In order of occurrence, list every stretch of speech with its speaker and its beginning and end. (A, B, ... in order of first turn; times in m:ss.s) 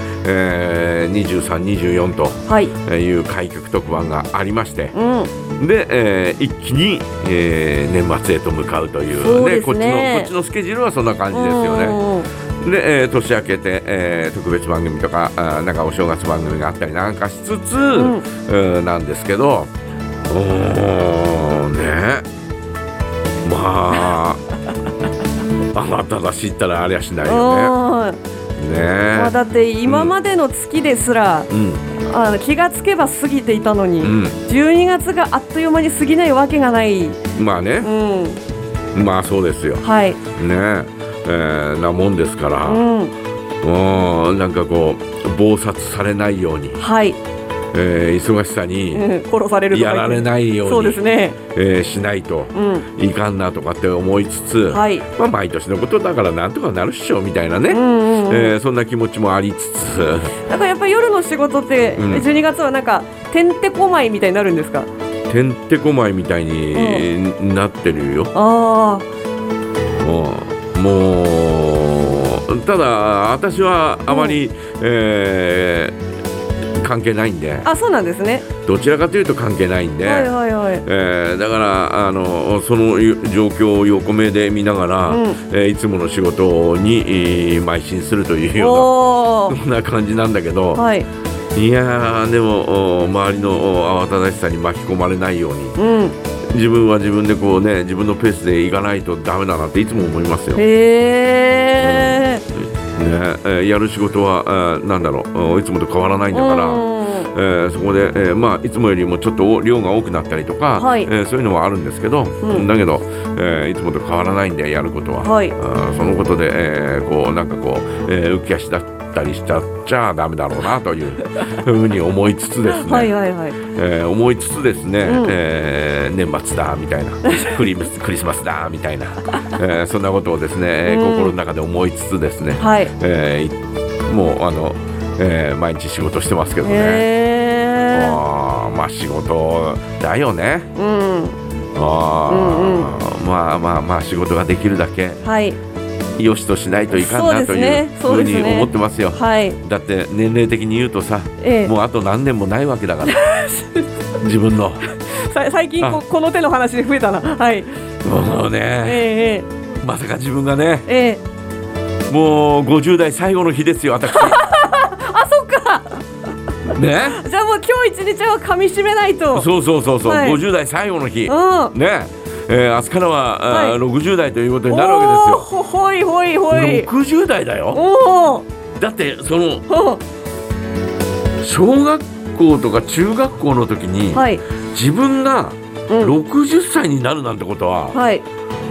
0:00.2-0:05.0 A
0:02.5-0:02.7 B
0:04.9-0:05.3 B
0:05.6-0:12.0 A
0:09.1-0:10.3 B
0:11.3-0:12.3 B
0:12.6-0:19.7 A
0:17.9-0:18.2 B
0:20.3-0:22.3 A
0:23.4-0:24.4 A
0:25.7-0:27.8 A
0:27.2-0:28.2 B
0:28.6-0:30.1 A
0:29.1-0:31.5 B
0:31.5-0:31.9 A
0:32.0-0:37.2 B
0:34.0-0:34.4 A
0:37.4-0:37.9 A
0:37.8-0:38.4 B
0:38.9-0:42.8 A
0:39.8-0:40.2 B
0:42.6-0:43.1 B
0:43.6-0:46.8 A
0:46.8-0:47.2 B
0:47.7-0:49.1 A
0:48.9-0:51.4 B
0:49.7-1:00.4 A
0:52.5-0:52.9 B
0:54.7-0:55.0 B
0:57.7-0:58.6 B
1:00.5-1:04.9 B
1:02.0-1:02.3 A
1:05.3-1:08.3 A
1:06.7-1:07.0 B
1:08.3-1:09.1 B
1:10.0-1:16.0 A
1:14.1-1:14.4 B
1:16.8-1:17.7 A
1:17.6-1:18.5 B
1:18.6-1:28.9 A
1:20.0-1:20.8 B
1:25.1-1:25.4 B
1:28.6-1:29.6 B
1:29.4-1:30.8 A
1:30.8-1:31.1 B
1:31.5-1:35.8 A
1:35.8-1:36.2 B
1:36.5-1:40.6 A
1:40.6-1:42.4 B
1:41.8-2:03.1 A
1:46.3-1:47.3 B
1:50.8-1:51.1 B
1:52.4-1:52.7 B
1:55.2-1:55.6 B
2:02.7-2:03.6 B
2:03.6-2:13.6 A
2:05.0-2:05.4 B
2:10.8-2:11.4 B
2:12.6-2:12.9 B
2:14.1-2:17.1 A
2:16.6-2:18.2 B
2:17.9-2:20.7 A
2:20.8-2:21.4 B
2:21.8-2:25.2 A
2:22.3-2:22.9 B
2:25.2-2:25.6 B
2:26.2-2:33.2 A
2:26.9-2:29.6 B
2:31.4-2:31.7 B
2:33.0-2:33.9 B
2:34.2-2:34.9 A
2:34.9-2:37.8 B
2:38.0-2:39.1 A
2:38.8-2:39.5 B
2:39.8-2:40.9 A
2:40.9-2:41.2 B
2:42.1-2:44.4 A
2:44.1-2:46.0 B
2:46.7-2:47.2 A
2:47.1-2:49.5 B
2:49.3-2:55.5 A
2:50.0-2:50.4 B
2:51.3-2:51.7 B
2:53.5-2:53.8 B
2:54.7-2:56.9 B
2:56.5-2:57.8 A
2:57.7-2:58.5 B
2:58.8-2:59.7 A
2:59.7-3:00.0 B
3:01.4-3:08.0 A
3:04.1-3:04.4 B
3:07.9-3:08.2 B